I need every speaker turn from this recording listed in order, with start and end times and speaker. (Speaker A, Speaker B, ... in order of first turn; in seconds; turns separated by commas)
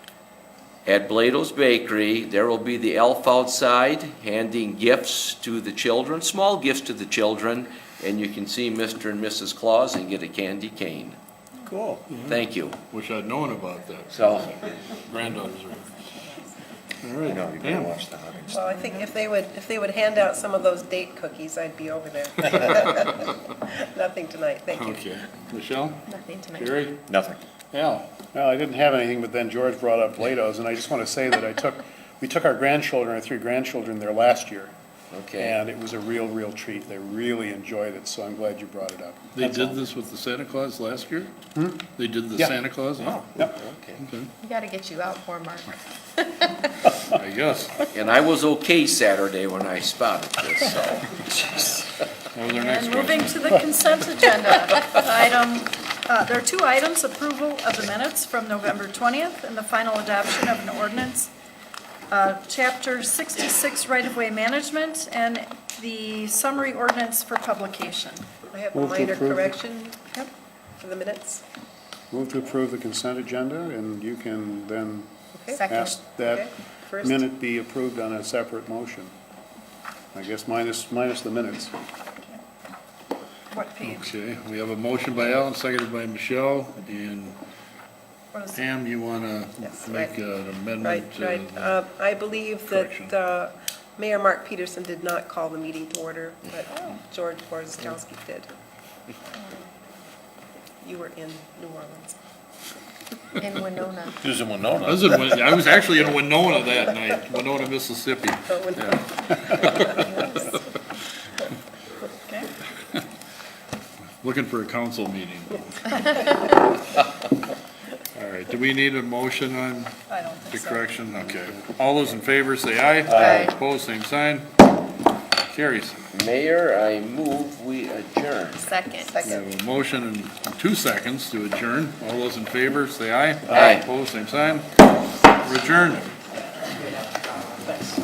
Speaker A: 0.8-11.2, Speaker B: 11.7-12.0, Speaker C: 12.1-12.3, Speaker A: 12.2-12.8, Speaker C: 12.9-15.8, Speaker A: 14.1-14.5, Speaker C: 17.0-18.0, Speaker B: 17.2-18.7, Speaker D: 18.5-25.1, Speaker C: 24.7-26.0, Speaker E: 26.1-26.7, Speaker C: 26.5-27.1, Speaker B: 27.1-27.4, Speaker C: 27.7-28.1, Speaker F: 28.3-34.7, Speaker A: 35.1-35.6, Speaker F: 35.4-39.8, Speaker C: 39.3-41.3, Speaker F: 41.5-41.8, Speaker C: 41.9-43.2, Speaker A: 43.4-44.0, Speaker C: 44.0-44.3, Speaker E: 44.4-46.2, Speaker C: 47.0-47.8, Speaker A: 47.9-51.8, Speaker C: 52.3-53.4, Speaker G: 52.5-61.3, Speaker E: 54.2-55.0, Speaker G: 62.1-68.2, Speaker D: 68.5-70.2, Speaker F: 68.7-69.5, Speaker D: 70.8-71.4, Speaker F: 72.1-79.1, Speaker D: 75.3-77.2, Speaker G: 75.6-75.9, Speaker F: 80.1-81.7, Speaker G: 83.5-84.1, Speaker C: 83.8-87.4, Speaker G: 88.3-88.6, Speaker C: 88.5-91.8, Speaker D: 89.6-90.1, Speaker D: 90.8-98.5, Speaker C: 92.7-93.1, Speaker D: 100.8-102.2, Speaker E: 103.4-104.2, Speaker B: 104.2-105.5, Speaker C: 104.8-110.2, Speaker D: 108.5-110.3, Speaker C: 114.2-115.9, Speaker C: 118.1-119.9, Speaker G: 120.1-120.9, Speaker C: 120.5-124.5, Speaker E: 123.2-123.5, Speaker C: 125.5-126.0, Speaker A: 126.1-128.7, Speaker E: 128.6-129.4, Speaker C: 129.2-134.7, Speaker A: 133.5-133.8, Speaker C: 135.4-136.1